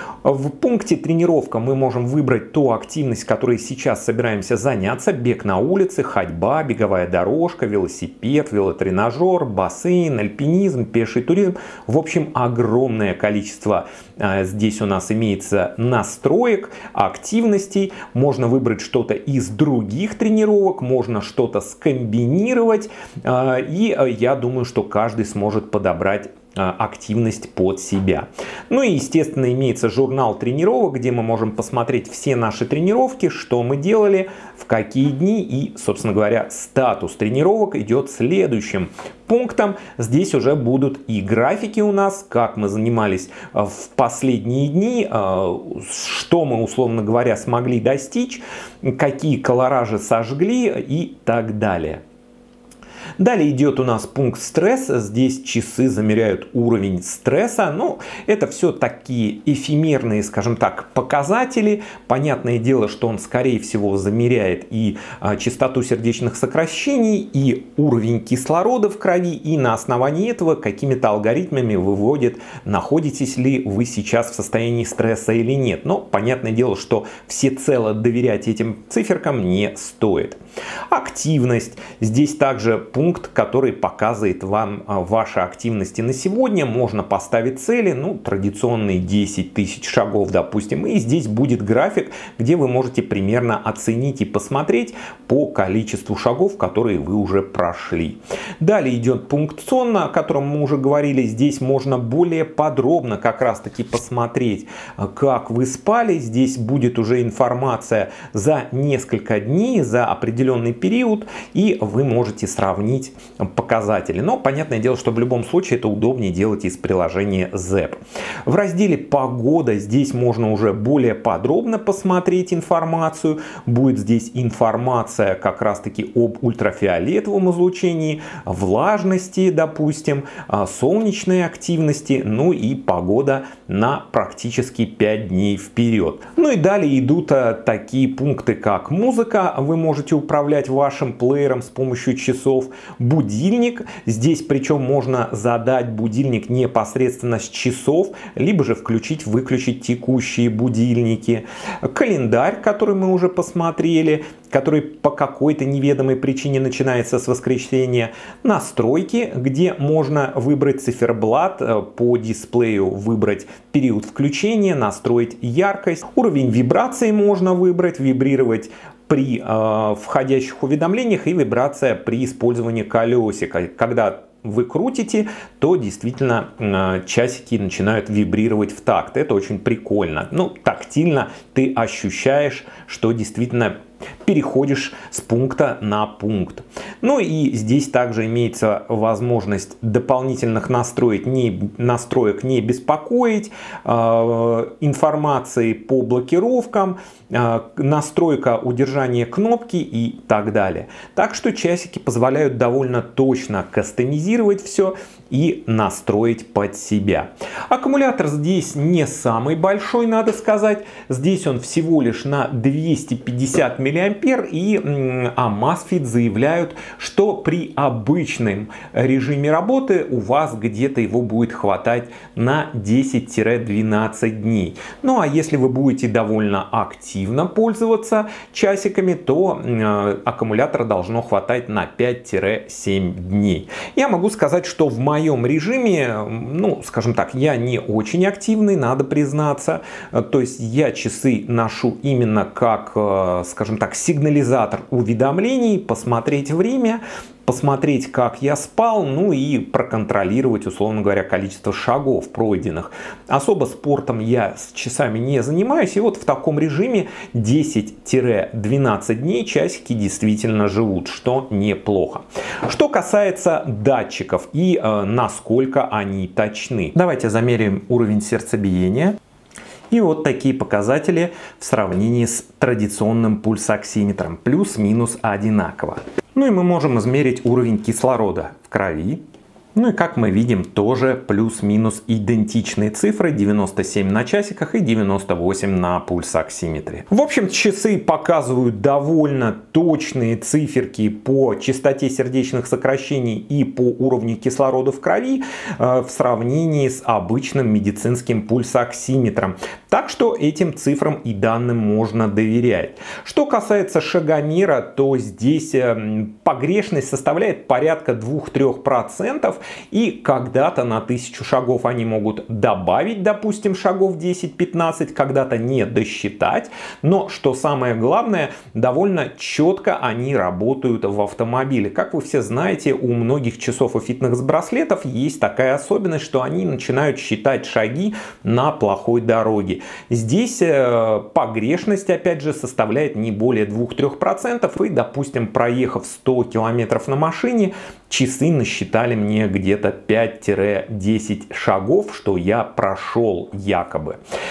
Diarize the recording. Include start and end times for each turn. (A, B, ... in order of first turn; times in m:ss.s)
0:00.2-0:52.0 A
0:53.2-1:20.4 A
1:20.9-4:29.2 A
4:29.9-4:39.2 A
4:39.8-5:44.2 A